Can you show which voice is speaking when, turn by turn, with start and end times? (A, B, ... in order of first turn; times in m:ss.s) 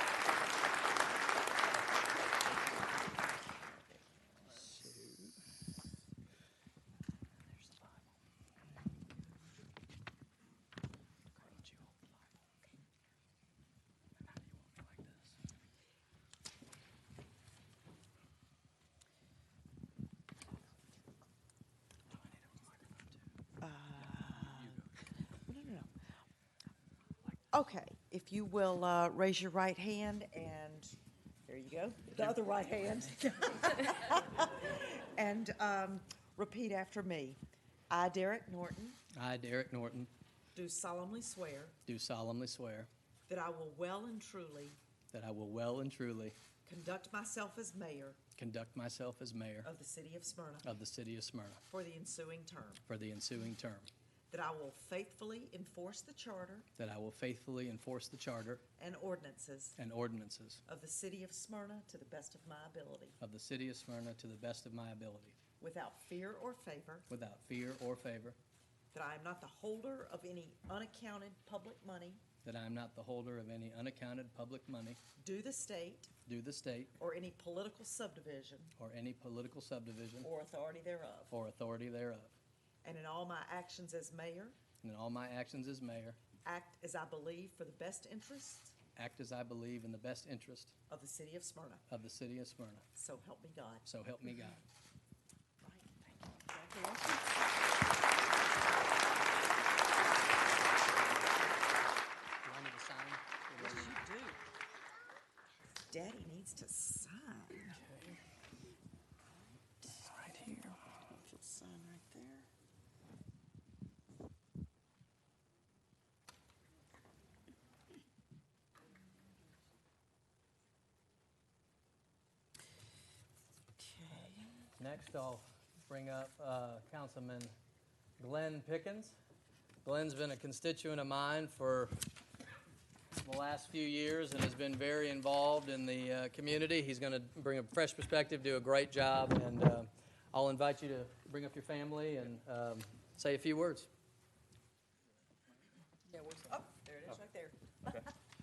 0:03.6-0:05.0 A
0:04.6-0:05.4 B
0:14.6-0:15.2 B
0:23.6-0:24.8 A
0:25.5-0:25.9 A
0:27.5-0:30.9 A
0:31.5-0:39.0 A
0:39.2-0:40.1 B
0:40.5-0:41.8 A
0:41.8-0:42.9 B
0:43.3-0:44.8 A
0:45.1-0:46.4 B
0:46.6-0:48.2 A
0:48.4-0:49.7 B
0:49.6-0:50.7 A
0:50.6-0:51.6 B
0:51.7-0:52.8 A
0:52.9-0:53.9 B
0:54.3-0:56.7 A
0:56.8-0:58.6 B
0:58.8-0:59.8 A
0:59.8-1:00.6 B
1:00.6-1:03.2 A
1:03.2-1:05.4 B
1:05.6-1:07.1 A
1:07.1-1:08.4 B
1:08.9-1:12.2 A
1:12.4-1:15.0 B
1:15.2-1:16.1 A
1:16.2-1:16.9 B
1:17.0-1:18.7 A
1:18.8-1:20.3 B
1:20.2-1:21.3 A
1:21.3-1:22.3 B
1:22.8-1:24.6 A
1:24.8-1:26.2 B
1:26.4-1:28.8 A
1:29.0-1:30.7 B
1:30.9-1:31.8 A
1:31.9-1:32.8 B
1:32.9-1:33.8 A
1:33.8-1:34.6 B
1:35.6-1:37.4 A
1:42.4-1:44.0 B
1:43.6-1:44.4 A
1:45.9-1:47.8 A
1:47.8-1:48.2 B
1:49.8-1:50.5 A
1:50.3-1:50.6 B
1:51.1-1:52.5 A
2:03.8-2:04.6 A
2:04.8-2:07.5 B
2:08.2-2:09.1 B
2:09.8-2:12.0 B
2:13.2-2:23.9 B
2:26.1-2:28.1 A